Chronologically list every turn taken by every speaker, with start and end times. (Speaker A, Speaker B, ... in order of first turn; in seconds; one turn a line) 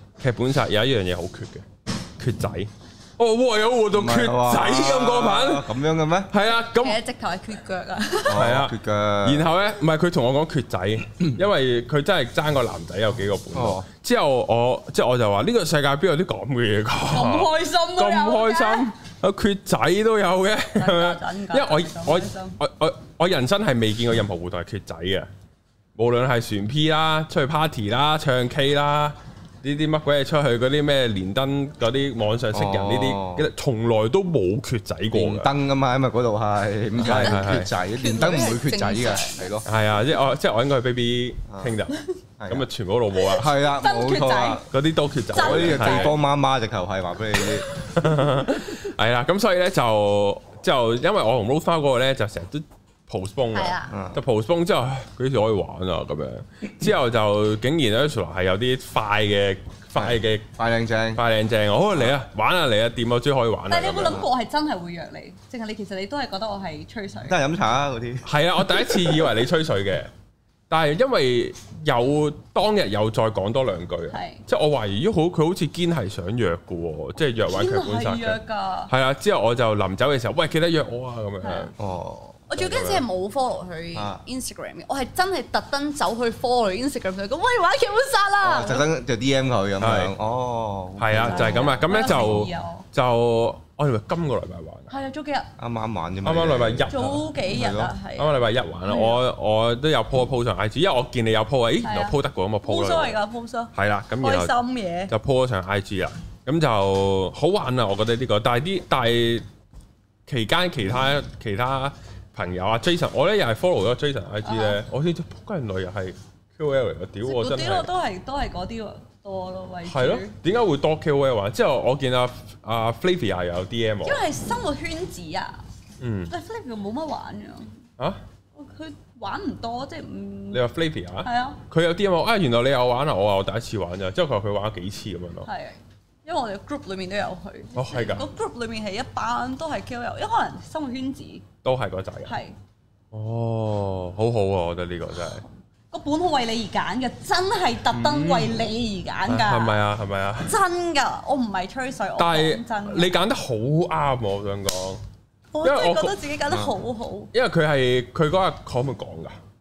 Speaker A: 0.2-1.6
Speaker A: 2.2-5.7
Speaker B: 3.9-6.3
Speaker A: 6.3-7.0
Speaker C: 6.8-8.5
Speaker B: 8.3-9.5
Speaker A: 8.3-25.3
Speaker B: 13.6-13.9
Speaker C: 17.1-18.9
Speaker C: 20.8-22.6
Speaker A: 25.9-35.5
Speaker B: 32.5-33.5
Speaker B: 35.1-39.6
Speaker A: 37.0-37.7
Speaker C: 37.0-39.6
Speaker A: 39.7-43.5
Speaker B: 41.5-41.8
Speaker B: 42.4-42.7
Speaker B: 43.3-44.6
Speaker C: 43.8-44.7
Speaker A: 44.7-46.1
Speaker C: 45.3-46.2
Speaker B: 45.3-47.7
Speaker C: 47.4-48.1
Speaker A: 47.8-60.5
Speaker C: 53.5-53.9
Speaker B: 53.9-54.2
Speaker B: 60.0-61.2
Speaker A: 61.1-64.2
Speaker C: 63.7-67.4
Speaker B: 67.2-68.3
Speaker A: 68.2-70.1
Speaker A: 70.7-81.7
Speaker C: 74.1-74.4
Speaker C: 77.5-78.9
Speaker C: 81.4-81.7
Speaker B: 81.8-82.7
Speaker C: 82.5-88.9
Speaker A: 82.6-83.0
Speaker B: 84.0-84.2
Speaker B: 88.4-92.4
Speaker A: 89.8-90.1
Speaker A: 91.0-94.9
Speaker C: 91.1-92.9
Speaker C: 94.9-95.5
Speaker B: 95.6-97.9
Speaker A: 96.2-97.2
Speaker C: 96.9-99.2
Speaker A: 98.2-103.2
Speaker C: 101.8-105.1
Speaker A: 103.7-104.5
Speaker A: 105.1-109.5
Speaker A: 110.3-117.9
Speaker C: 114.4-114.8
Speaker C: 117.2-120.3
Speaker A: 119.9-124.2
Speaker C: 124.0-125.6
Speaker A: 126.0-126.3
Speaker C: 126.3-127.8
Speaker C: 128.6-130.6
Speaker A: 130.5-135.5
Speaker C: 131.2-131.6
Speaker C: 135.5-141.4
Speaker A: 137.8-138.3
Speaker A: 141.6-142.4
Speaker C: 142.3-142.6
Speaker A: 143.1-145.4
Speaker C: 145.9-149.8
Speaker A: 147.9-148.5
Speaker A: 149.3-150.6
Speaker C: 150.4-153.2
Speaker A: 152.2-155.0
Speaker C: 155.5-157.3
Speaker A: 155.6-156.2
Speaker B: 156.5-156.8
Speaker A: 157.3-159.4